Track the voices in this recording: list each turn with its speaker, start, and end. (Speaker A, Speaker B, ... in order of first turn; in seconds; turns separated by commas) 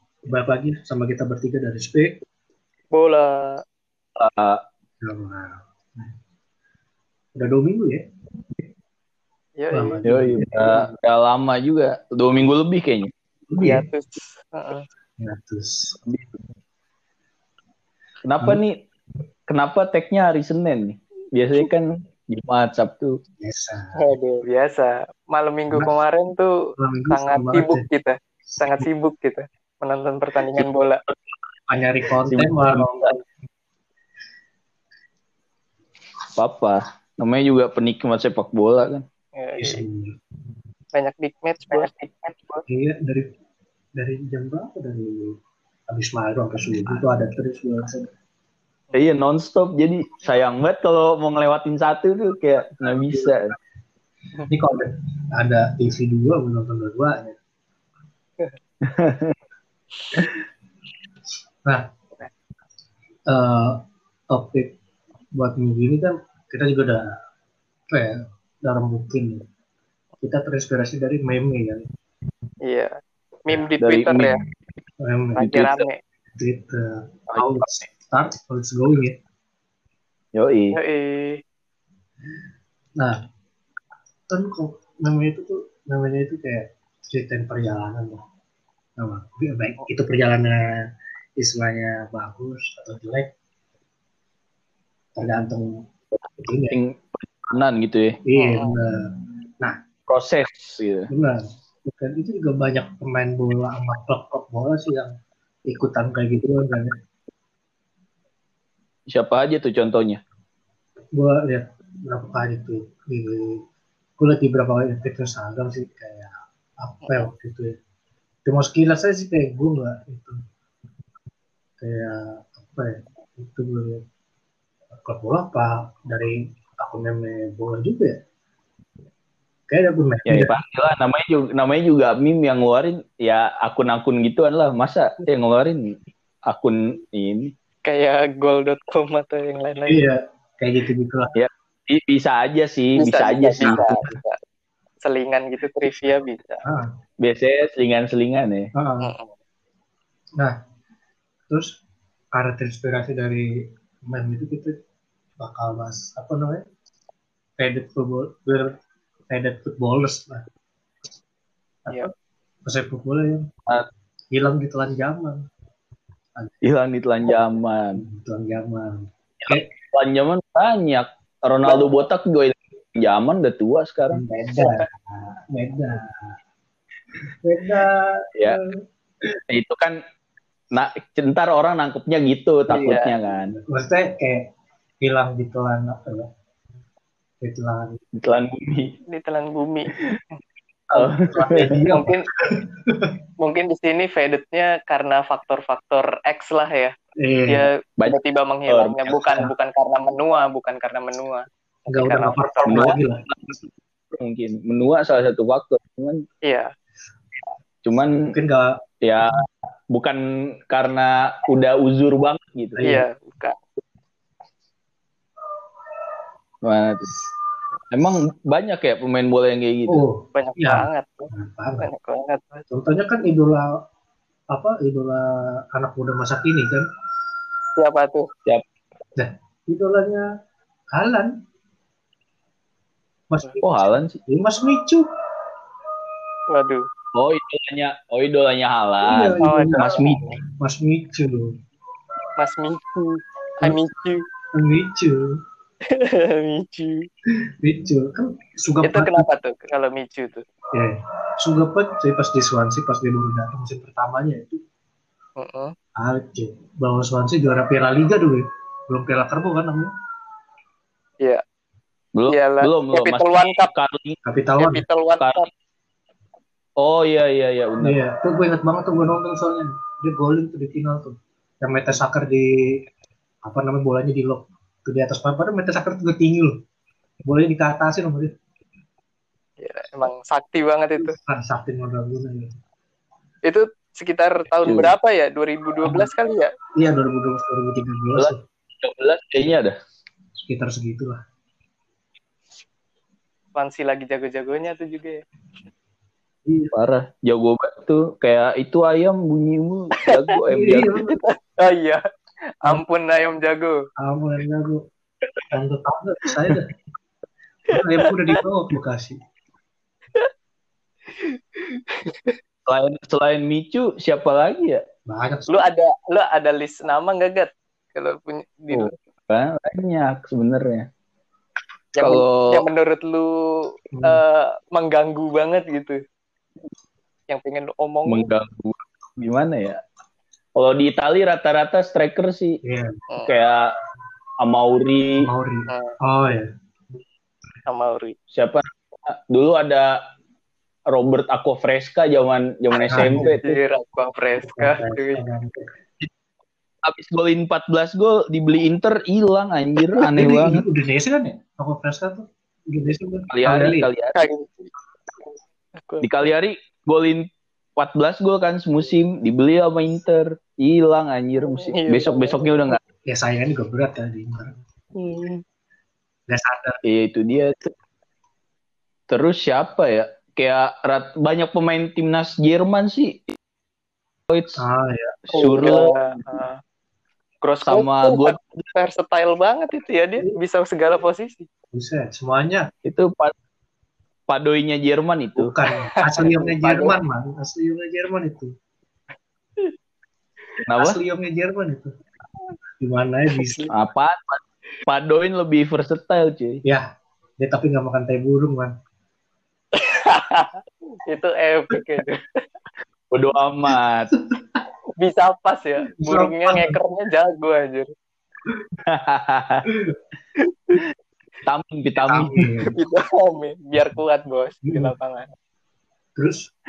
Speaker A: 0.3-2.2, Speaker B: 2.9-3.6, Speaker C: 4.2-4.6, Speaker A: 5.0-6.1, Speaker A: 7.3-8.0, Speaker B: 9.6-10.0, Speaker A: 9.7-10.9, Speaker C: 10.0-13.1, Speaker A: 13.5-13.9, Speaker B: 13.6-14.8, Speaker A: 15.2-16.0, Speaker C: 16.0-16.4, Speaker C: 18.2-18.8, Speaker C: 19.5-23.2, Speaker A: 23.4-24.1, Speaker B: 23.9-31.0, Speaker A: 26.8-27.9, Speaker A: 31.7-33.2, Speaker C: 32.2-33.1, Speaker C: 36.4-39.0, Speaker B: 39.4-39.8, Speaker A: 39.6-40.2, Speaker B: 40.9-42.6, Speaker A: 42.7-43.3, Speaker A: 43.9-48.1, Speaker C: 48.9-53.5, Speaker A: 52.7-53.6, Speaker A: 54.5-57.4, Speaker C: 58.8-59.4, Speaker A: 63.3-64.7, Speaker A: 65.3-67.1, Speaker A: 67.9-69.4, Speaker A: 70.2-71.8, Speaker B: 72.6-74.4, Speaker C: 73.8-74.3, Speaker A: 75.0-75.5, Speaker B: 75.3-76.0, Speaker C: 75.4-75.8, Speaker A: 76.3-79.2, Speaker C: 77.3-77.7, Speaker C: 80.3-80.8, Speaker B: 80.7-81.4, Speaker A: 84.3-88.2, Speaker A: 89.0-90.6, Speaker A: 91.4-93.3, Speaker A: 95.2-95.8, Speaker A: 96.4-96.8, Speaker C: 96.7-98.2, Speaker A: 98.2-99.0, Speaker B: 98.3-98.7, Speaker C: 100.1-101.1, Speaker A: 101.1-105.1, Speaker A: 105.7-107.0, Speaker C: 109.1-110.2, Speaker A: 111.1-113.6, Speaker A: 114.2-117.8, Speaker B: 117.0-117.3, Speaker A: 118.4-120.4, Speaker A: 121.8-124.0, Speaker A: 125.0-128.2, Speaker A: 129.7-130.5, Speaker C: 130.2-135.9, Speaker C: 136.5-137.5, Speaker B: 137.8-140.1, Speaker A: 139.9-141.3, Speaker C: 141.3-144.1, Speaker B: 142.9-144.4, Speaker A: 143.7-144.1, Speaker B: 145.0-146.6, Speaker C: 147.2-148.7, Speaker A: 148.7-149.1, Speaker B: 149.0-149.3, Speaker A: 151.5-151.7, Speaker A: 152.3-154.8, Speaker A: 155.4-156.7, Speaker A: 157.6-158.8, Speaker A: 159.3-160.4, Speaker A: 162.7-163.5, Speaker A: 164.3-165.4, Speaker C: 166.6-168.0, Speaker A: 167.9-169.7, Speaker C: 169.4-174.2, Speaker B: 171.7-172.0, Speaker A: 174.1-176.3, Speaker B: 174.6-174.9, Speaker A: 177.4-178.8, Speaker C: 178.3-178.6, Speaker C: 179.5-180.0, Speaker C: 180.7-183.6, Speaker B: 182.7-183.1, Speaker A: 182.9-184.5, Speaker A: 185.0-186.3, Speaker A: 187.4-188.0, Speaker C: 188.1-188.9, Speaker B: 189.1-190.4, Speaker C: 190.9-191.7, Speaker B: 190.9-192.3, Speaker A: 191.4-193.2, Speaker B: 193.4-196.9, Speaker A: 197.2-197.7, Speaker B: 197.5-203.0, Speaker C: 198.0-199.2, Speaker A: 199.2-199.5, Speaker A: 201.9-203.3, Speaker C: 202.7-203.6, Speaker C: 204.1-206.2, Speaker B: 206.4-206.7, Speaker C: 207.8-208.3, Speaker A: 208.3-208.8, Speaker C: 209.0-213.0, Speaker A: 212.8-213.0, Speaker B: 212.8-213.6, Speaker C: 216.6-217.1, Speaker C: 217.9-220.0, Speaker A: 219.9-221.9, Speaker B: 220.3-222.6, Speaker A: 222.7-223.7, Speaker A: 224.5-226.8, Speaker B: 227.8-228.3, Speaker A: 229.2-230.2, Speaker A: 230.9-231.3, Speaker A: 233.3-235.1, Speaker C: 233.6-234.2, Speaker B: 236.5-236.8, Speaker C: 237.1-240.2, Speaker A: 239.0-241.5, Speaker B: 239.4-240.4, Speaker B: 242.4-244.2, Speaker A: 244.5-245.4, Speaker B: 245.9-247.1, Speaker A: 247.6-249.3, Speaker B: 248.8-250.4, Speaker A: 250.7-254.6, Speaker B: 255.4-255.7, Speaker A: 256.0-259.9, Speaker C: 262.1-264.2, Speaker B: 262.3-263.7, Speaker A: 264.2-264.8, Speaker B: 264.6-265.5, Speaker C: 265.2-265.4, Speaker C: 266.8-268.0, Speaker A: 267.8-272.8, Speaker A: 273.4-276.6, Speaker A: 277.2-278.3, Speaker B: 279.6-281.1, Speaker A: 281.0-282.5, Speaker B: 283.4-286.5, Speaker C: 284.6-284.9, Speaker A: 286.8-288.4, Speaker C: 288.1-289.8, Speaker A: 290.4-291.2, Speaker B: 293.5-295.2, Speaker A: 296.4-296.7, Speaker C: 296.7-301.0, Speaker B: 300.0-300.4, Speaker A: 300.5-301.1, Speaker B: 300.9-302.0, Speaker B: 302.6-303.8, Speaker A: 304.0-304.8, Speaker A: 305.5-306.7, Speaker A: 307.7-309.2, Speaker B: 307.7-308.4, Speaker B: 311.2-312.4, Speaker C: 312.6-314.8, Speaker A: 315.1-315.6, Speaker B: 315.5-318.9, Speaker C: 318.7-320.9, Speaker B: 321.9-326.0, Speaker C: 322.0-322.7, Speaker A: 323.9-324.2, Speaker B: 327.3-328.3, Speaker C: 328.1-329.8, Speaker C: 330.5-332.6, Speaker A: 332.6-333.0, Speaker C: 333.2-333.7, Speaker C: 334.4-335.3, Speaker A: 335.2-336.5, Speaker B: 335.7-335.9, Speaker B: 337.7-338.1, Speaker C: 338.3-340.0, Speaker C: 340.9-343.6, Speaker B: 342.7-345.2, Speaker A: 342.9-343.4, Speaker A: 344.4-345.7, Speaker C: 346.8-350.6, Speaker A: 350.0-353.9, Speaker C: 353.3-354.2, Speaker B: 354.1-354.7, Speaker B: 355.8-356.1, Speaker C: 356.0-362.8, Speaker B: 361.4-362.8, Speaker A: 363.1-364.5, Speaker B: 364.9-365.4, Speaker A: 366.3-366.8, Speaker C: 366.8-367.7, Speaker C: 369.1-373.3, Speaker C: 374.3-374.6, Speaker A: 374.6-375.7, Speaker C: 375.3-376.0, Speaker B: 375.3-376.6, Speaker B: 377.4-381.5, Speaker C: 377.6-378.6, Speaker A: 381.7-382.7, Speaker C: 382.8-383.3, Speaker C: 384.3-385.5, Speaker A: 385.4-388.5, Speaker B: 385.9-386.9, Speaker C: 390.7-391.0, Speaker A: 390.8-391.9, Speaker A: 392.8-393.6, Speaker B: 393.3-393.7, Speaker C: 393.7-396.6, Speaker A: 397.4-398.7, Speaker B: 399.7-402.2, Speaker C: 403.1-404.1, Speaker A: 404.1-404.6, Speaker B: 405.0-407.9, Speaker A: 406.0-406.8, Speaker C: 408.8-409.7, Speaker C: 411.4-412.5, Speaker A: 412.1-412.8, Speaker B: 412.1-415.3, Speaker A: 414.6-414.9, Speaker A: 416.2-416.5